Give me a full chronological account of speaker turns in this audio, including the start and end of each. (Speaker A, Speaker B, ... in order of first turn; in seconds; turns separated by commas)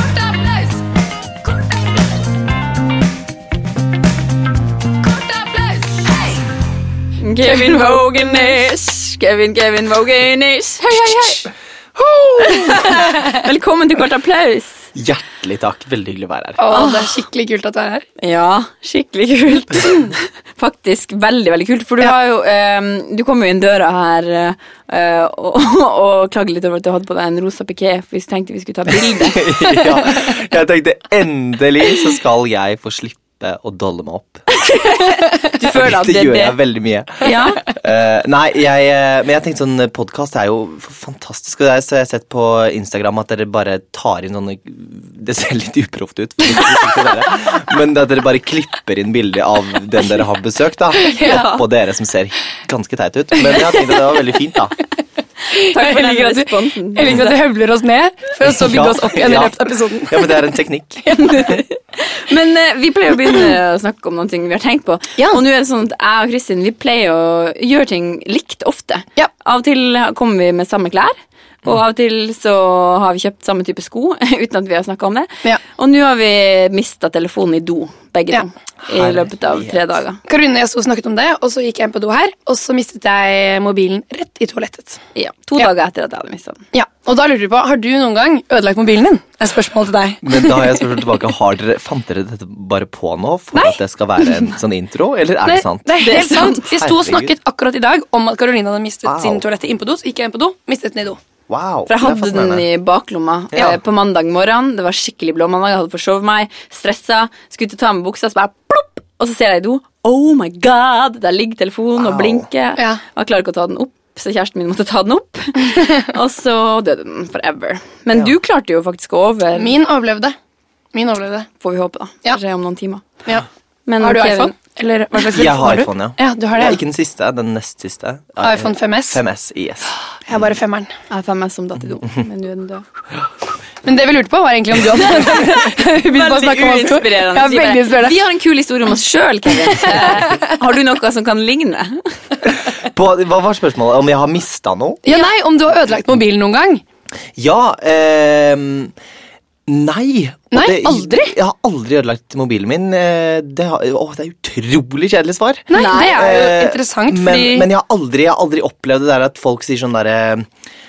Speaker A: 5.4-6.1, Speaker B: 7.2-11.5, Speaker A: 7.4-8.5, Speaker A: 12.0-13.4, Speaker B: 12.4-14.8, Speaker C: 14.9-16.8, Speaker A: 16.6-18.0, Speaker B: 16.7-17.2, Speaker B: 18.2-29.6, Speaker C: 28.9-34.6, Speaker B: 34.5-36.6, Speaker C: 35.6-54.7, Speaker B: 37.2-37.6, Speaker A: 51.0-51.6, Speaker A: 55.5-60.5, Speaker B: 55.6-57.4, Speaker C: 58.4-61.6, Speaker A: 61.0-61.6, Speaker B: 61.2-80.2, Speaker C: 78.9-79.8, Speaker A: 80.3-85.0, Speaker B: 85.1-86.6, Speaker A: 86.7-90.8, Speaker C: 90.2-96.2, Speaker A: 93.5-94.3, Speaker A: 95.4-101.2, Speaker B: 96.0-96.7, Speaker C: 96.7-97.3, Speaker C: 99.0-99.4, Speaker C: 101.5-102.7, Speaker B: 101.9-119.8, Speaker C: 103.5-103.8, Speaker C: 112.0-112.5, Speaker A: 119.5-120.3, Speaker A: 120.9-121.5, Speaker B: 121.6-123.0, Speaker B: 123.9-124.5, Speaker A: 124.0-126.8, Speaker C: 125.3-130.4, Speaker A: 128.4-129.2, Speaker A: 130.2-130.9, Speaker B: 131.1-132.8, Speaker A: 133.8-138.2, Speaker B: 135.0-142.2, Speaker A: 139.7-140.5, Speaker C: 142.4-145.0, Speaker A: 145.0-146.8, Speaker C: 147.3-148.9, Speaker C: 149.7-160.5, Speaker A: 150.5-151.3, Speaker A: 155.7-157.7, Speaker B: 155.7-156.2